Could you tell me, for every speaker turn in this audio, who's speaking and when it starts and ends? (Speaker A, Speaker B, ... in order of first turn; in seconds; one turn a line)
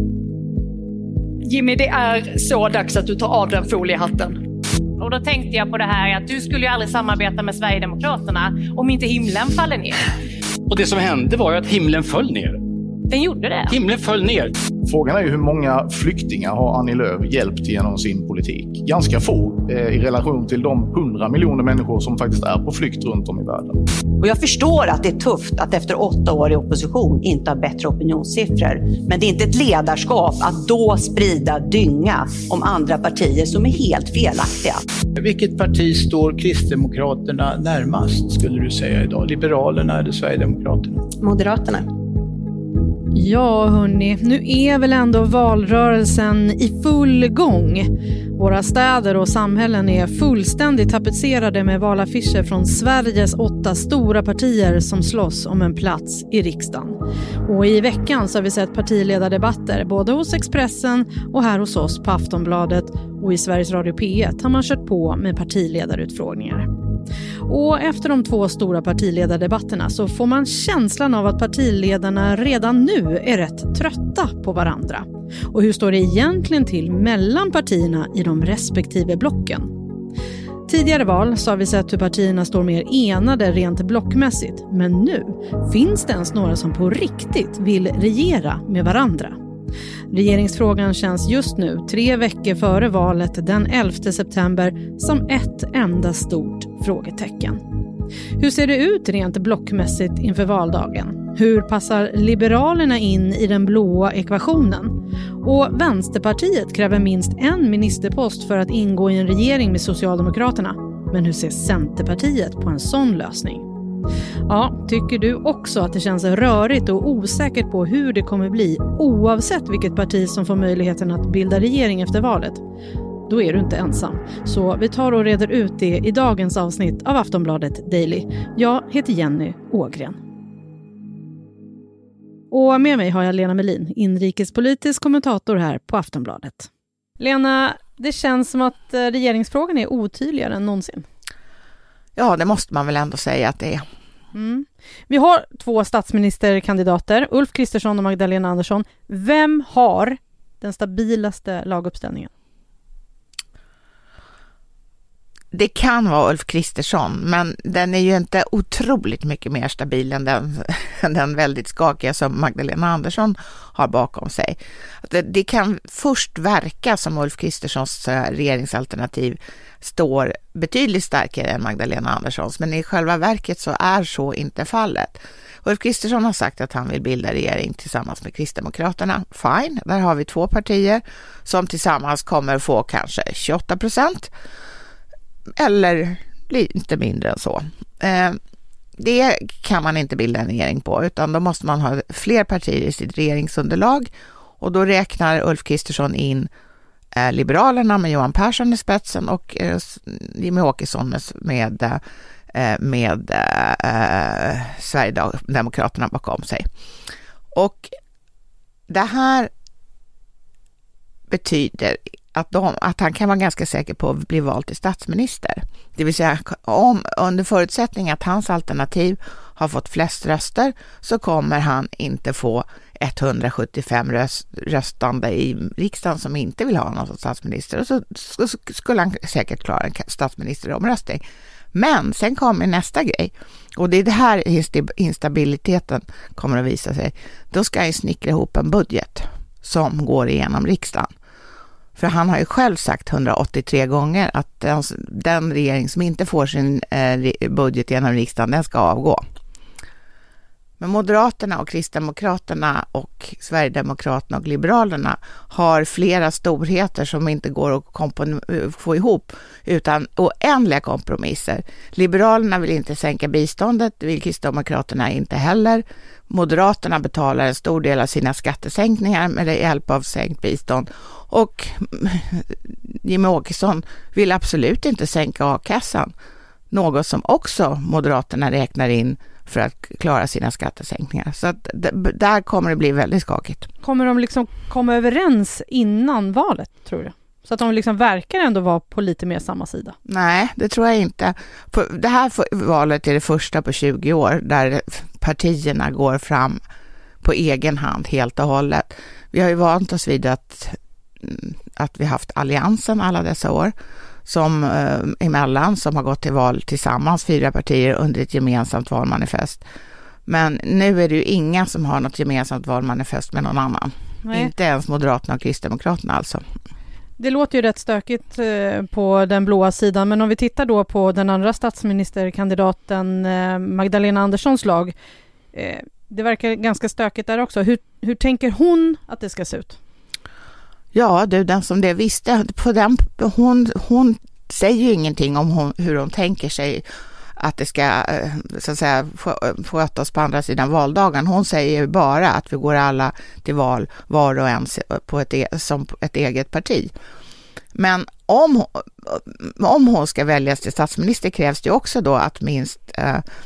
Speaker A: 1.4-4.4
Speaker B: 5.0-9.9
Speaker C: 10.7-12.6
Speaker A: 13.1-13.5
Speaker B: 13.1-13.7
Speaker C: 13.7-14.5
Speaker D: 14.8-23.8
Speaker E: 24.2-34.8
Speaker F: 35.2-41.1
Speaker G: 43.1-66.7
Speaker G: 67.5-79.7
Speaker G: 80.7-89.4
Speaker G: 90.1-97.6
Speaker G: 98.4-113.6
Speaker G: 114.5-122.6
Speaker G: 123.3-130.2
Speaker G: 132.5-141.1
Speaker H: 142.2-143.8
Speaker G: 144.3-152.3
Speaker H: 155.5-184.3
Speaker H: 185.6-188.4
Speaker H: 189.0-196.5
Speaker H: 197.2-202.0
Speaker H: 202.5-206.6
Speaker H: 207.5-207.9
Speaker H: 208.9-209.5
Speaker H: 211.3-231.2
Speaker H: 231.7-241.1
Speaker H: 242.0-249.2
Speaker H: 250.8-276.1
Speaker H: 276.7-283.7
Speaker G: 283.8-289.9
Speaker H: 290.1-296.6
Speaker H: 297.2-303.7
Speaker H: 304.2-309.6
Speaker H: 310.3-316.4
Speaker G: 314.2-314.5
Speaker G: 317.2-324.9
Speaker G: 325.5-329.8
Speaker H: 330.9-336.8
Speaker H: 337.4-346.9
Speaker H: 347.7-353.2